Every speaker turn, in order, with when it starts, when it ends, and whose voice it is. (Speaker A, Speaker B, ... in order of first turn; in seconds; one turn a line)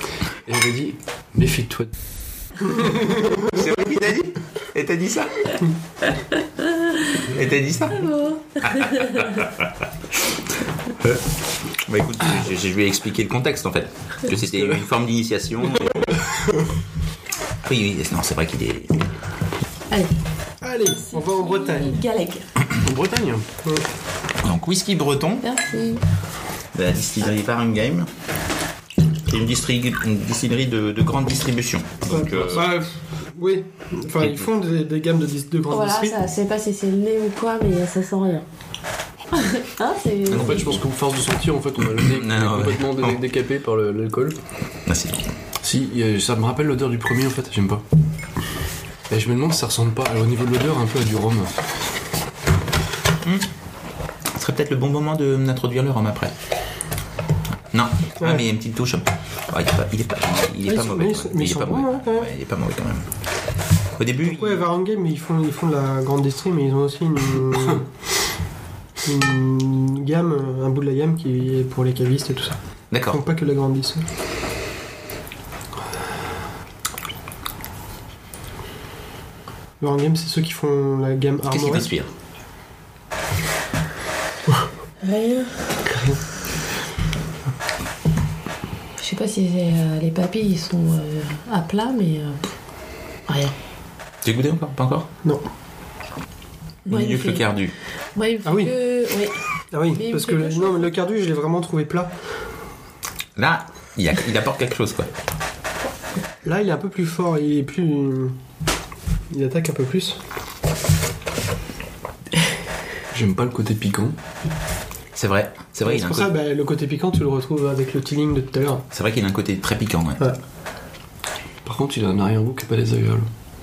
Speaker A: 0.4-1.9
Speaker B: 2.7-3.6
Speaker C: 3.4-5.6
Speaker D: 6.3-7.2
Speaker C: 7.3-8.0
Speaker D: 7.9-9.3
Speaker C: 8.6-9.7
Speaker C: 11.8-16.1
Speaker A: 14.3-14.8
Speaker C: 17.6-18.9
Speaker B: 20.6-22.0
Speaker D: 20.8-22.4
Speaker A: 22.8-23.4
Speaker C: 24.4-25.4
Speaker D: 25.4-26.0
Speaker C: 26.7-28.1
Speaker C: 29.3-32.7
Speaker B: 32.1-36.2
Speaker C: 34.2-34.5
Speaker D: 35.7-38.4
Speaker D: 39.4-40.7
Speaker C: 40.3-40.8
Speaker A: 40.3-44.4
Speaker C: 42.0-43.2
Speaker C: 44.9-45.2
Speaker A: 45.6-47.8
Speaker A: 49.1-51.7
Speaker C: 54.3-56.3
Speaker C: 57.7-63.1
Speaker B: 58.2-58.4
Speaker B: 60.6-62.3
Speaker C: 64.0-64.6
Speaker B: 64.2-67.8
Speaker B: 69.0-74.0
Speaker C: 72.9-73.2
Speaker B: 79.8-81.9
Speaker C: 81.5-82.1
Speaker D: 85.0-85.8
Speaker B: 85.9-86.2
Speaker D: 89.0-92.4
Speaker D: 93.3-93.5
Speaker C: 94.2-95.1
Speaker D: 96.8-97.5
Speaker C: 96.9-97.7
Speaker D: 98.1-99.3
Speaker B: 98.4-98.7
Speaker B: 99.7-102.1
Speaker D: 99.9-100.9
Speaker C: 103.3-105.1
Speaker B: 106.4-108.4
Speaker B: 109.3-110.2
Speaker A: 113.1-114.1
Speaker C: 115.1-116.3
Speaker B: 115.8-118.8
Speaker C: 118.9-120.2
Speaker A: 121.6-123.3